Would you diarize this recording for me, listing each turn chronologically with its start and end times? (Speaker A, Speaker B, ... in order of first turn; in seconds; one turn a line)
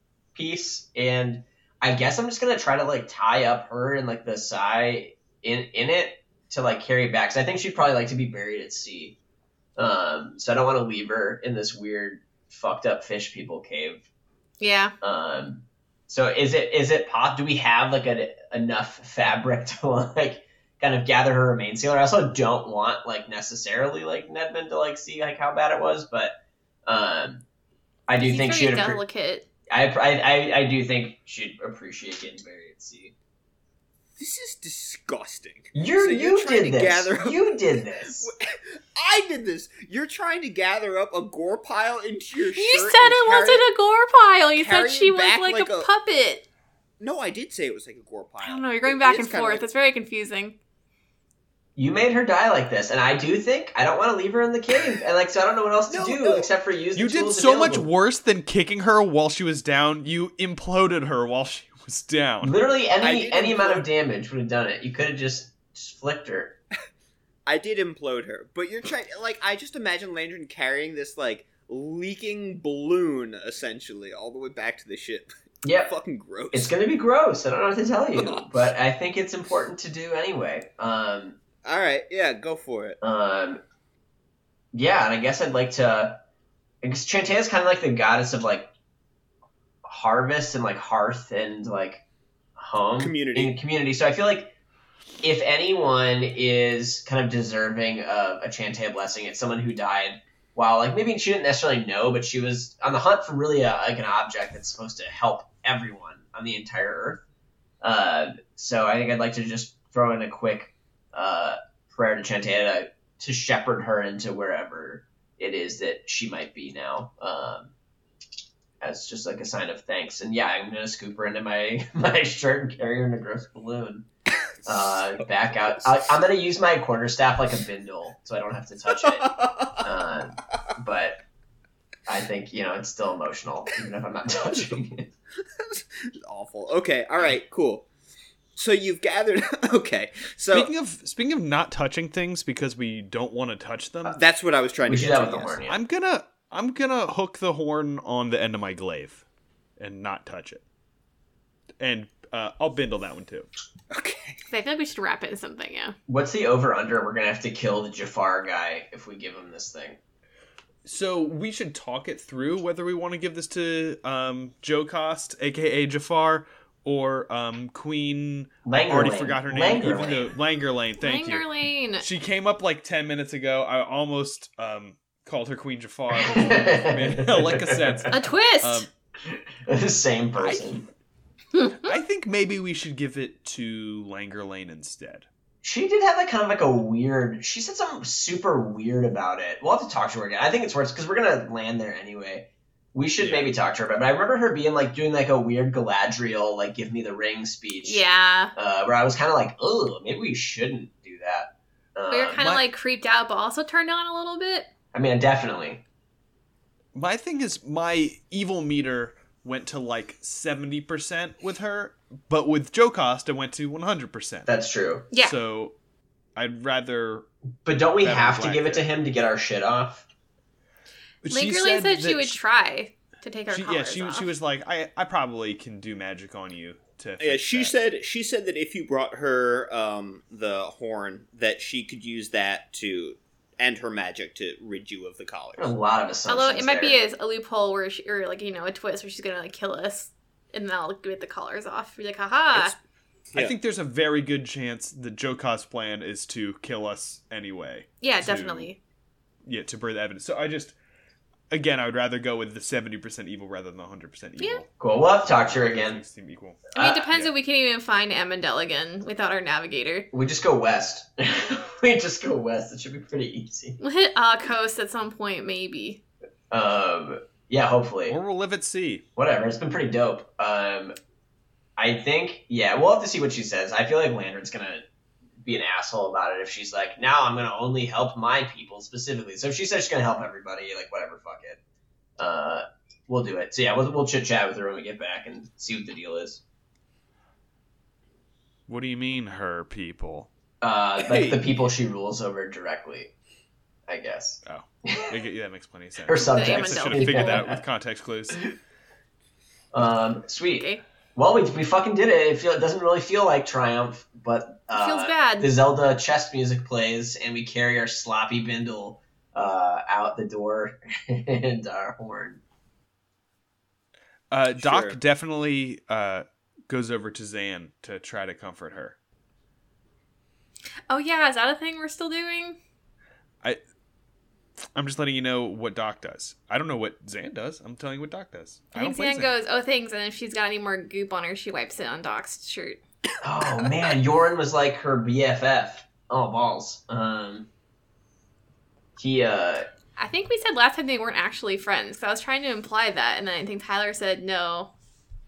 Speaker A: 0.3-9.2
Speaker A: 9.8-14.0
Speaker B: 14.6-14.9
Speaker A: 15.0-26.3
Speaker A: 26.9-27.4
Speaker A: 28.1-29.0
Speaker B: 28.1-29.5
Speaker A: 29.7-33.1
Speaker C: 34.2-43.6
Speaker A: 35.7-38.3
Speaker B: 42.5-46.4
Speaker C: 44.6-45.9
Speaker C: 47.0-49.6
Speaker B: 48.4-50.6
Speaker A: 51.8-57.9
Speaker C: 55.9-56.5
Speaker D: 56.9-62.5
Speaker A: 62.4-66.6
Speaker C: 63.0-63.9
Speaker C: 67.5-75.3
Speaker A: 75.6-75.9
Speaker C: 75.8-76.7
Speaker A: 76.5-81.4
Speaker C: 78.2-78.4
Speaker C: 81.6-83.0
Speaker A: 83.0-83.6
Speaker A: 84.7-86.2
Speaker A: 86.8-88.7
Speaker A: 89.8-92.0
Speaker A: 92.6-94.5
Speaker C: 93.0-93.5
Speaker A: 95.2-107.2
Speaker A: 107.8-117.7
Speaker A: 118.8-124.1
Speaker A: 124.6-131.2
Speaker C: 129.1-129.8
Speaker A: 132.1-135.1
Speaker C: 135.6-137.9
Speaker C: 138.6-140.7
Speaker D: 140.5-144.2
Speaker C: 144.1-145.6
Speaker A: 144.8-145.8
Speaker D: 145.7-149.2
Speaker D: 149.8-150.6
Speaker D: 151.8-153.5
Speaker C: 153.9-154.4
Speaker B: 154.5-155.9
Speaker A: 156.1-160.0
Speaker D: 160.8-171.4
Speaker A: 168.6-170.3
Speaker B: 171.0-172.0
Speaker D: 172.0-178.9
Speaker A: 176.1-178.1
Speaker B: 178.1-178.8
Speaker A: 179.2-180.8
Speaker D: 180.4-180.8
Speaker B: 181.5-182.0
Speaker D: 181.8-185.2
Speaker A: 185.6-198.0
Speaker D: 193.2-193.5
Speaker B: 197.8-198.5
Speaker A: 198.5-202.4
Speaker B: 202.1-204.7
Speaker D: 202.4-202.6
Speaker A: 204.9-205.8
Speaker D: 206.9-214.5
Speaker A: 214.4-215.1
Speaker D: 215.2-215.7
Speaker D: 216.3-217.2
Speaker A: 217.6-220.1
Speaker D: 218.0-218.9
Speaker D: 221.2-222.4
Speaker B: 221.3-224.3
Speaker D: 223.5-227.8
Speaker C: 227.2-235.7
Speaker A: 235.6-237.0
Speaker B: 236.3-242.7
Speaker D: 243.3-248.7
Speaker B: 248.0-248.8
Speaker D: 249.4-250.8
Speaker D: 251.5-254.7
Speaker A: 254.8-256.0
Speaker D: 255.2-257.3
Speaker A: 256.7-257.0
Speaker B: 256.8-260.1
Speaker A: 260.1-263.8
Speaker B: 263.8-266.0
Speaker A: 266.5-268.2
Speaker D: 268.1-269.0
Speaker A: 269.1-270.9
Speaker A: 271.8-274.8
Speaker A: 275.4-281.6
Speaker A: 282.2-286.4
Speaker D: 288.7-290.3
Speaker A: 290.6-293.1
Speaker C: 291.0-291.4
Speaker A: 293.9-295.1
Speaker D: 294.4-298.5
Speaker A: 296.0-297.6
Speaker B: 296.2-297.4
Speaker A: 299.7-312.4
Speaker B: 300.5-300.8
Speaker B: 304.7-305.5
Speaker D: 314.3-319.0
Speaker C: 314.6-315.0
Speaker B: 320.9-322.6
Speaker D: 324.7-329.3
Speaker B: 328.7-332.8
Speaker A: 333.2-337.5
Speaker A: 339.0-339.7
Speaker B: 340.0-344.7